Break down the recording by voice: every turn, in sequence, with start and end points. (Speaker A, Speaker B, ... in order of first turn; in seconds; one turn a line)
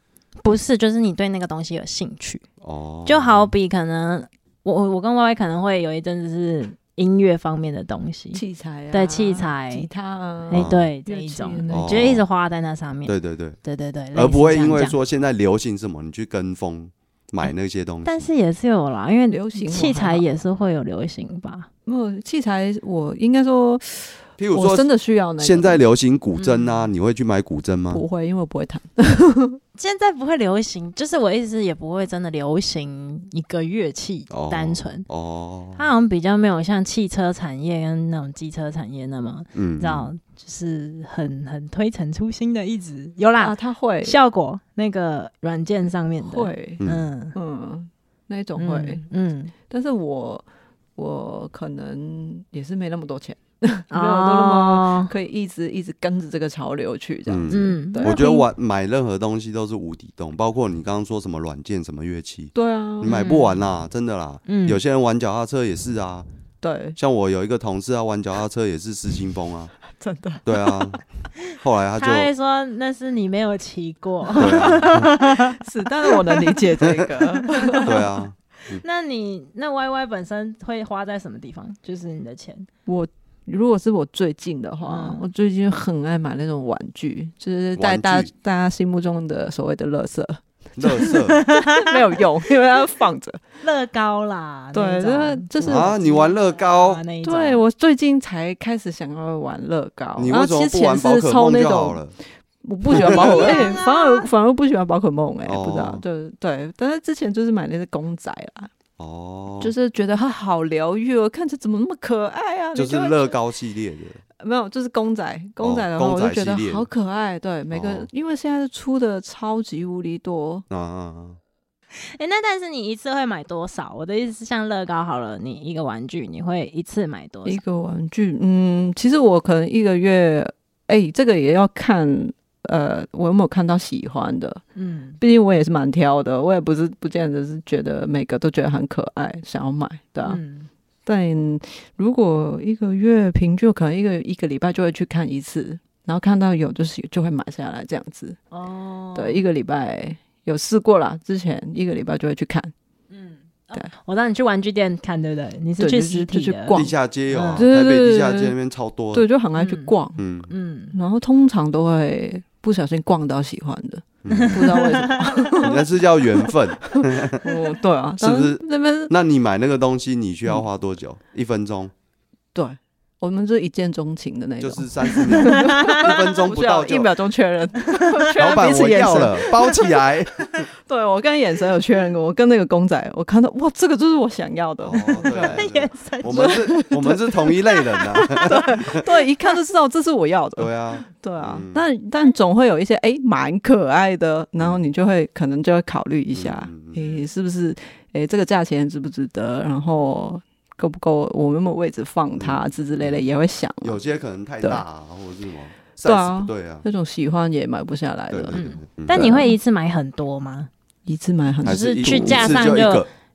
Speaker A: 0.4-2.4
Speaker B: 2.6-3.5
Speaker A: 3.0-9.9
Speaker C: 8.3-12.1
Speaker A: 10.5-14.9
Speaker B: 10.5-10.8
Speaker B: 11.7-12.2
Speaker B: 13.1-13.6
Speaker B: 14.1-18.2
Speaker A: 18.0-21.7
Speaker C: 19.3-20.2
Speaker C: 21.9-25.8
Speaker B: 24.4-24.9
Speaker B: 25.4-28.0
Speaker A: 26.4-26.9
Speaker C: 27.9-29.6
Speaker A: 29.8-35.0
Speaker B: 34.3-35.8
Speaker A: 35.8-47.3
Speaker B: 39.5-40.1
Speaker C: 43.4-44.1
Speaker C: 46.2-46.8
Speaker C: 47.3-49.0
Speaker A: 48.6-49.5
Speaker C: 49.7-58.2
Speaker A: 53.9-55.1
Speaker B: 57.3-66.2
Speaker A: 57.5-58.5
Speaker C: 62.5-63.2
Speaker A: 63.0-63.7
Speaker A: 64.5-64.8
Speaker C: 66.6-67.0
Speaker B: 67.0-69.7
Speaker C: 69.9-71.0
Speaker B: 70.4-71.0
Speaker B: 71.5-72.3
Speaker A: 72.0-76.4
Speaker C: 74.4-78.0
Speaker B: 74.4-75.1
Speaker A: 77.4-77.9
Speaker B: 77.8-78.8
Speaker A: 78.7-82.7
Speaker C: 82.9-93.4
Speaker A: 84.8-85.2
Speaker B: 87.8-88.3
Speaker B: 90.8-91.4
Speaker A: 91.1-92.0
Speaker A: 93.6-97.6
Speaker C: 94.7-96.2
Speaker B: 95.6-97.0
Speaker C: 97.2-102.0
Speaker B: 100.2-102.1
Speaker C: 102.6-108.7
Speaker A: 102.9-104.3
Speaker B: 102.9-103.6
Speaker B: 105.4-106.0
Speaker B: 109.0-109.7
Speaker C: 109.6-113.4
Speaker B: 112.7-114.2
Speaker C: 114.4-120.6
Speaker B: 115.6-116.9
Speaker B: 117.7-118.1
Speaker B: 120.7-121.4
Speaker A: 122.0-127.6
Speaker C: 127.5-134.6
Speaker A: 134.8-135.2
Speaker C: 135.2-140.4
Speaker A: 140.2-140.7
Speaker C: 141.1-148.4
Speaker A: 148.5-149.4
Speaker C: 149.1-152.7
Speaker A: 153.1-157.7
Speaker C: 155.8-156.9
Speaker B: 156.8-159.3
Speaker C: 157.5-158.5
Speaker C: 159.1-160.2
Speaker A: 159.6-159.9
Speaker B: 160.2-160.5
Speaker A: 160.5-160.9
Speaker C: 160.9-165.8
Speaker B: 164.2-164.6
Speaker A: 164.3-165.6
Speaker B: 165.6-167.4
Speaker C: 166.4-169.1
Speaker B: 168.2-171.9
Speaker C: 172.5-179.8
Speaker B: 174.6-177.1
Speaker A: 175.3-176.1
Speaker B: 178.3-180.7
Speaker C: 180.8-185.6
Speaker B: 184.8-189.0
Speaker A: 185.5-186.9
Speaker C: 186.2-187.6
Speaker A: 187.6-188.5
Speaker C: 188.1-204.0
Speaker B: 190.6-191.8
Speaker B: 194.6-194.8
Speaker B: 196.3-197.0
Speaker B: 202.4-203.2
Speaker B: 203.8-206.8
Speaker C: 206.0-209.6
Speaker B: 208.3-209.3
Speaker A: 208.5-210.7
Speaker C: 211.1-212.8
Speaker B: 211.6-213.1
Speaker A: 211.6-213.1